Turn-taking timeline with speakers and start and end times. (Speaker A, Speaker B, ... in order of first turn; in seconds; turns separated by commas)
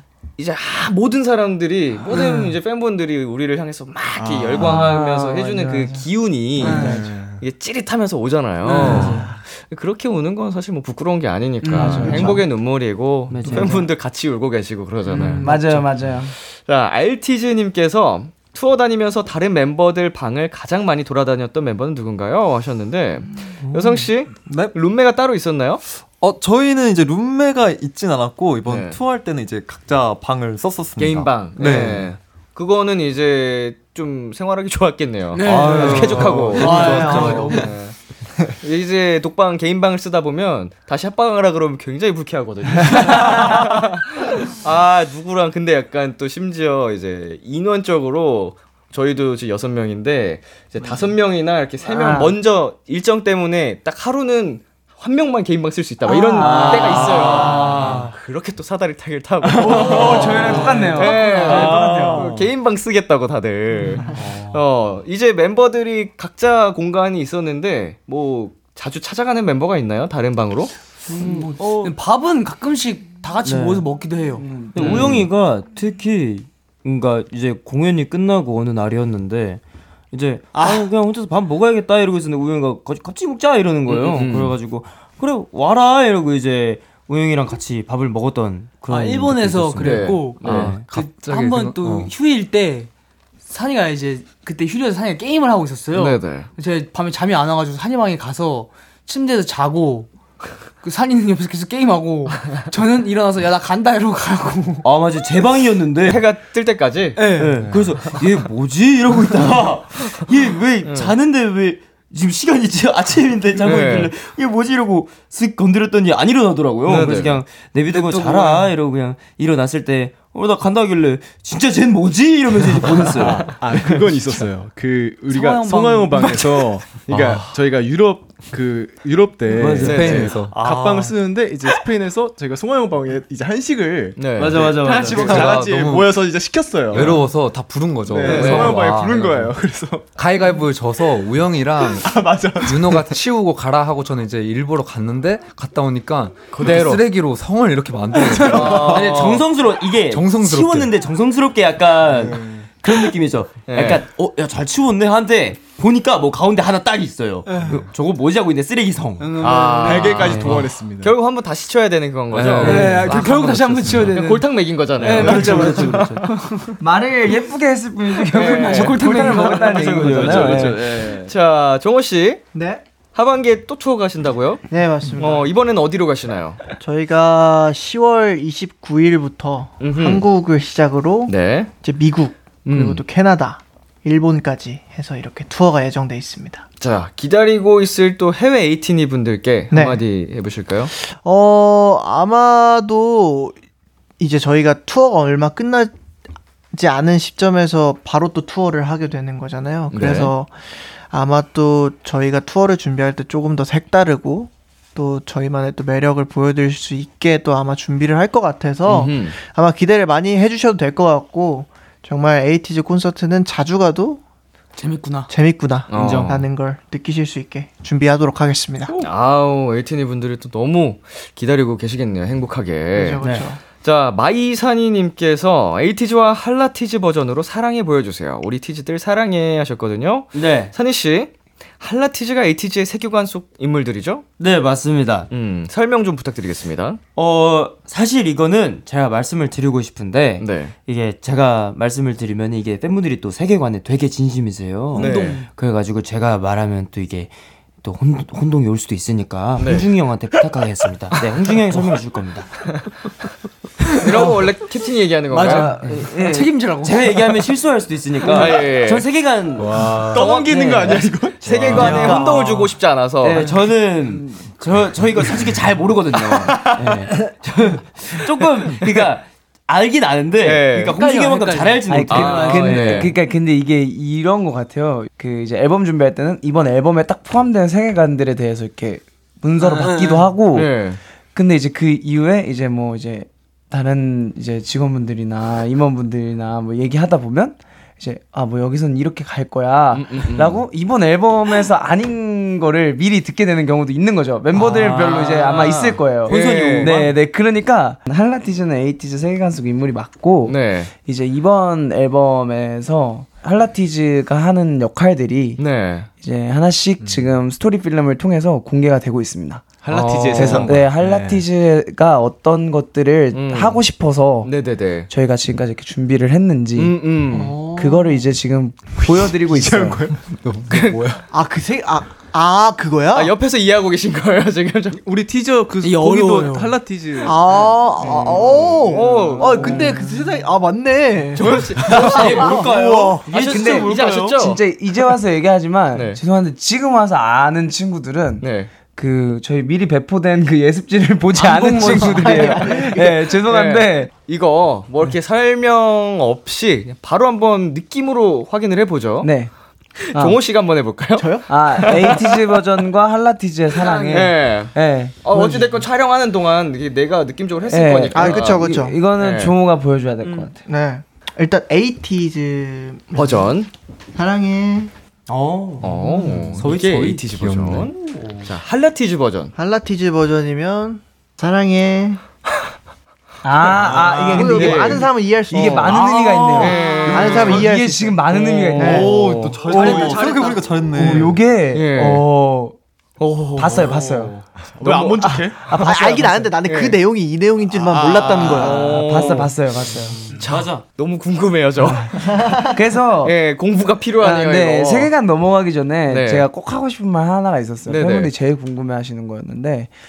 Speaker A: 0.4-15.5, Speaker B: 2.2-2.5, Speaker C: 4.2-4.8, Speaker D: 4.6-6.1, Speaker B: 6.6-7.0, Speaker C: 6.6-7.4, Speaker D: 6.6-7.0, Speaker B: 8.7-9.3, Speaker D: 8.7-9.3, Speaker B: 11.6-12.4, Speaker D: 11.8-12.4, Speaker E: 12.0-12.4, Speaker E: 13.3-13.9, Speaker B: 15.1-15.8, Speaker D: 15.4-16.3, Speaker A: 16.4-25.8, Speaker F: 26.2-32.0, Speaker A: 28.7-29.0, Speaker A: 31.0-38.0, Speaker G: 31.6-32.0, Speaker B: 35.3-37.8, Speaker E: 35.7-36.1, Speaker C: 36.2-36.5, Speaker H: 36.6-37.5, Speaker E: 36.7-37.5, Speaker A: 38.6-70.7, Speaker D: 51.9-52.4, Speaker D: 56.0-57.4, Speaker B: 56.4-57.0, Speaker E: 57.0-58.0, Speaker C: 57.3-57.7, Speaker D: 59.6-62.2, Speaker C: 59.8-60.3, Speaker B: 60.8-62.1, Speaker E: 61.7-62.1, Speaker E: 71.2-71.9, Speaker B: 71.3-74.6, Speaker E: 73.4-73.9, Speaker D: 74.4-74.8, Speaker E: 74.7-79.6, Speaker A: 74.8-75.3, Speaker E: 80.1-90.9, Speaker A: 83.9-84.6, Speaker B: 88.9-92.9, Speaker A: 89.8-90.7, Speaker G: 90.6-92.1, Speaker B: 93.5-100.1, Speaker A: 95.9-96.5, Speaker B: 100.8-104.9, Speaker E: 104.8-106.2, Speaker A: 106.0-107.4, Speaker B: 107.2-107.7, Speaker E: 107.3-123.6, Speaker A: 110.9-111.1, Speaker A: 113.6-114.1, Speaker A: 116.9-117.4, Speaker B: 118.0-118.7, Speaker C: 123.3-137.2, Speaker B: 125.3-126.7, Speaker A: 127.1-127.5, Speaker E: 129.5-130.4, Speaker G: 129.8-130.6, Speaker A: 129.8-130.9, Speaker A: 134.2-135.5, Speaker E: 134.4-135.6, Speaker G: 135.1-136.3, Speaker G: 136.9-139.6, Speaker A: 136.9-137.2, Speaker C: 138.1-140.1, Speaker A: 138.2-138.8, Speaker G: 140.2-149.0, Speaker C: 141.8-143.2, Speaker A: 146.5-147.0, Speaker B: 148.2-148.7, Speaker A: 148.3-149.5, Speaker E: 148.6-159.5, Speaker G: 150.1-150.9, Speaker C: 152.1-152.7, Speaker A: 153.7-154.0, Speaker B: 157.5-157.8, Speaker B: 159.2-160.4, Speaker A: 159.4-163.3, Speaker C: 159.8-161.2, Speaker E: 160.3-160.6, Speaker G: 162.3-164.2, Speaker B: 162.6-166.7, Speaker A: 163.9-166.3, Speaker E: 165.1-166.2, Speaker D: 166.8-170.8, Speaker A: 168.3-169.4, Speaker B: 168.3-170.2, Speaker E: 169.3-171.3, Speaker A: 170.3-172.4, Speaker C: 170.3-170.9, Speaker H: 172.5-172.8, Speaker A: 173.1-174.6, Speaker H: 174.7-175.5, Speaker A: 175.2-176.6, Speaker H: 176.8-186.7, Speaker A: 179.8-180.3, Speaker A: 181.3-181.7, Speaker A: 182.7-183.0, Speaker A: 186.8-190.9, Speaker H: 189.7-190.0, Speaker H: 190.9-193.6, Speaker H: 194.2-195.9, Speaker H: 196.7-214.2, Speaker A: 199.9-200.3, Speaker A: 208.8-209.3, Speaker B: 214.8-215.3, Speaker H: 215.3-218.9, Speaker A: 215.9-216.4, Speaker E: 215.9-216.4, Speaker A: 219.0-223.2, Speaker H: 222.9-223.6, Speaker E: 223.2-223.5, Speaker A: 223.8-234.2, Speaker E: 230.3-230.7, Speaker E: 234.4-235.3, Speaker A: 235.3-237.0, Speaker E: 237.2-252.6, Speaker A: 240.4-240.8, Speaker B: 244.9-245.5, Speaker A: 245.0-245.4, Speaker A: 249.6-249.9, Speaker A: 254.0-255.8, Speaker B: 254.0-254.4, Speaker B: 255.3-257.5, Speaker D: 255.4-256.5, Speaker E: 256.8-273.1, Speaker A: 258.2-259.1, Speaker C: 259.6-262.3, Speaker A: 260.1-263.5, Speaker A: 270.4-271.0, Speaker B: 270.9-273.0, Speaker D: 271.9-280.7, Speaker A: 272.1-273.1, Speaker B: 279.7-280.2, Speaker A: 280.5-281.0, Speaker D: 281.4-305.6, Speaker A: 289.9-290.6, Speaker E: 294.5-297.1, Speaker A: 296.3-297.1, Speaker A: 300.4-300.9, Speaker A: 305.6-306.1, Speaker D: 306.2-309.6, Speaker C: 307.0-307.3, Speaker C: 309.8-311.5, Speaker A: 309.9-310.8, Speaker D: 310.4-314.5, Speaker A: 313.3-313.9, Speaker A: 314.4-315.1, Speaker D: 315.1-320.1, Speaker A: 316.8-317.6, Speaker C: 319.0-320.2, Speaker G: 320.3-321.2, Speaker H: 321.3-323.3, Speaker A: 323.1-325.0, Speaker C: 325.0-327.8, Speaker B: 325.8-326.8, Speaker H: 327.2-333.2, Speaker D: 328.0-328.4, Speaker C: 328.3-330.0, Speaker A: 328.9-329.9, Speaker A: 331.4-332.6, Speaker E: 331.4-334.4, Speaker C: 331.8-333.2, Speaker A: 333.3-334.6, Speaker D: 333.3-344.1, Speaker A: 335.9-336.2, Speaker A: 338.4-338.7, Speaker B: 341.7-342.6, Speaker H: 342.1-343.1, Speaker A: 343.4-349.3, Speaker D: 349.2-349.5, Speaker A: 350.1-352.2, Speaker D: 350.1-350.4, Speaker H: 351.2-352.1, Speaker D: 351.5-355.2, Speaker A: 353.8-358.6, Speaker H: 355.3-355.9, Speaker D: 357.7-360.6, Speaker H: 358.1-358.9, Speaker A: 359.2-359.5, Speaker H: 360.6-363.5, Speaker A: 363.1-363.7, Speaker H: 364.1-364.9, Speaker E: 365.3-367.2, Speaker A: 365.8-369.5, Speaker G: 366.5-368.0, Speaker H: 369.6-372.2, Speaker D: 373.4-382.8, Speaker C: 373.8-374.3, Speaker H: 374.3-378.2, Speaker A: 374.3-376.0, Speaker A: 376.6-377.7, Speaker A: 378.3-380.2, Speaker F: 378.8-381.4, Speaker H: 379.7-380.6, Speaker A: 381.7-382.2, Speaker A: 383.2-384.0, Speaker D: 383.5-384.3, Speaker C: 384.6-385.6, Speaker A: 384.8-385.4, Speaker D: 385.6-386.6, Speaker H: 385.7-389.0, Speaker A: 386.6-387.0, Speaker C: 387.7-388.5, Speaker A: 388.4-389.5, Speaker D: 388.5-390.2, Speaker A: 390.4-392.6, Speaker E: 390.4-390.8, Speaker H: 392.2-392.7, Speaker D: 392.7-393.3, Speaker A: 393.2-395.1, Speaker D: 394.2-399.9, Speaker A: 396.1-396.4, Speaker A: 397.9-398.3